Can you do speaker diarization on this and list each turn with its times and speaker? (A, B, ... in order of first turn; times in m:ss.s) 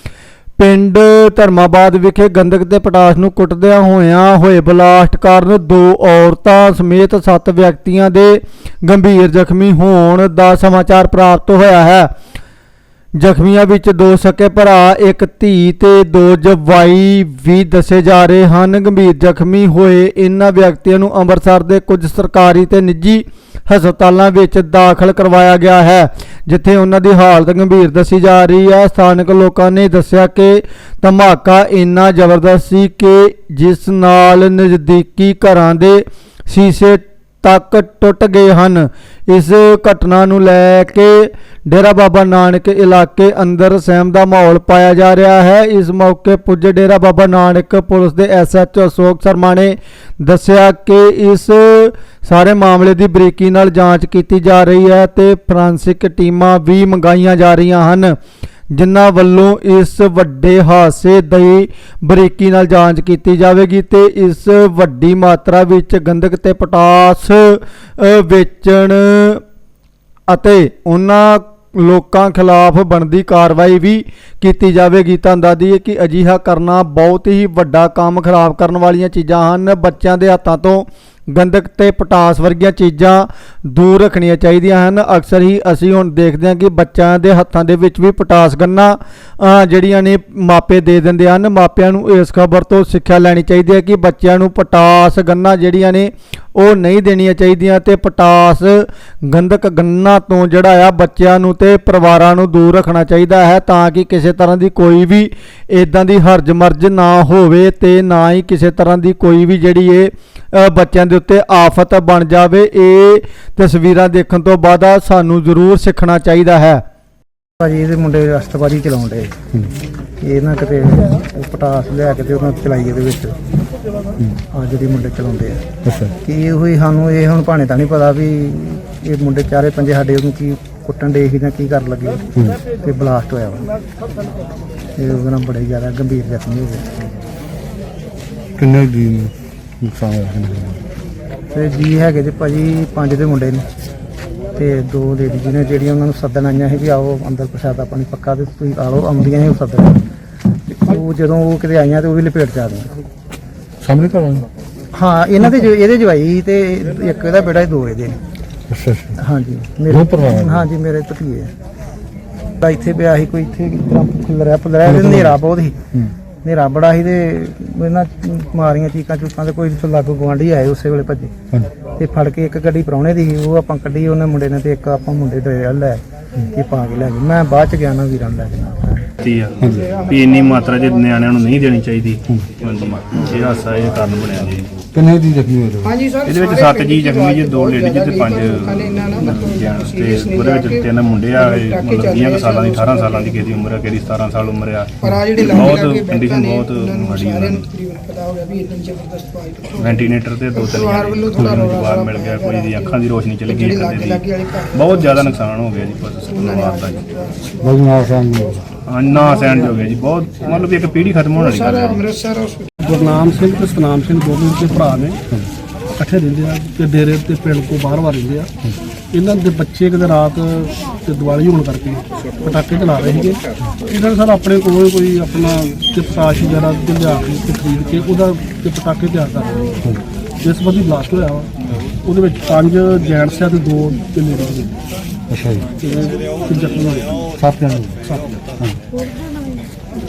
0:00.6-0:12.1 A
0:13.2-0:58.2 A
0:58.7-1:09.4 A
1:10.3-1:56.8 A
1:57.6-1:59.3 B
2:00.2-2:03.3 B
2:04.5-2:05.6 B
2:05.8-2:06.1 C
2:06.2-2:13.7 B
2:15.0-2:16.9 B
2:18.6-2:20.8 C
2:21.5-2:23.6 B
2:24.6-2:30.1 B
2:30.7-2:32.9 B
2:33.8-2:34.5 C
2:34.9-2:38.2 B
2:38.7-2:39.2 C
2:39.2-2:41.5 B
2:39.9-2:40.6 C
2:42.6-2:45.8 B
2:44.9-2:45.3 C
2:46.4-2:51.3 B
2:52.0-2:59.0 B
2:59.2-3:04.7 D
2:59.6-2:59.9 C
2:59.7-3:00.8 E
3:04.9-3:05.9 C
3:05.8-3:13.4 E
3:06.2-3:17.7 D
3:15.0-3:25.3 E
3:19.8-3:27.0 D
3:26.2-3:27.8 E
3:27.6-3:28.6 C
3:28.8-3:32.1 D
3:31.4-3:32.7 E
3:32.8-3:35.2 F
3:35.9-3:38.5 F
3:39.1-3:49.8 F
3:50.4-3:54.7 F
3:55.3-3:55.7 C
3:55.8-3:57.3 F
3:57.4-3:58.0 C
3:58.0-3:58.4 F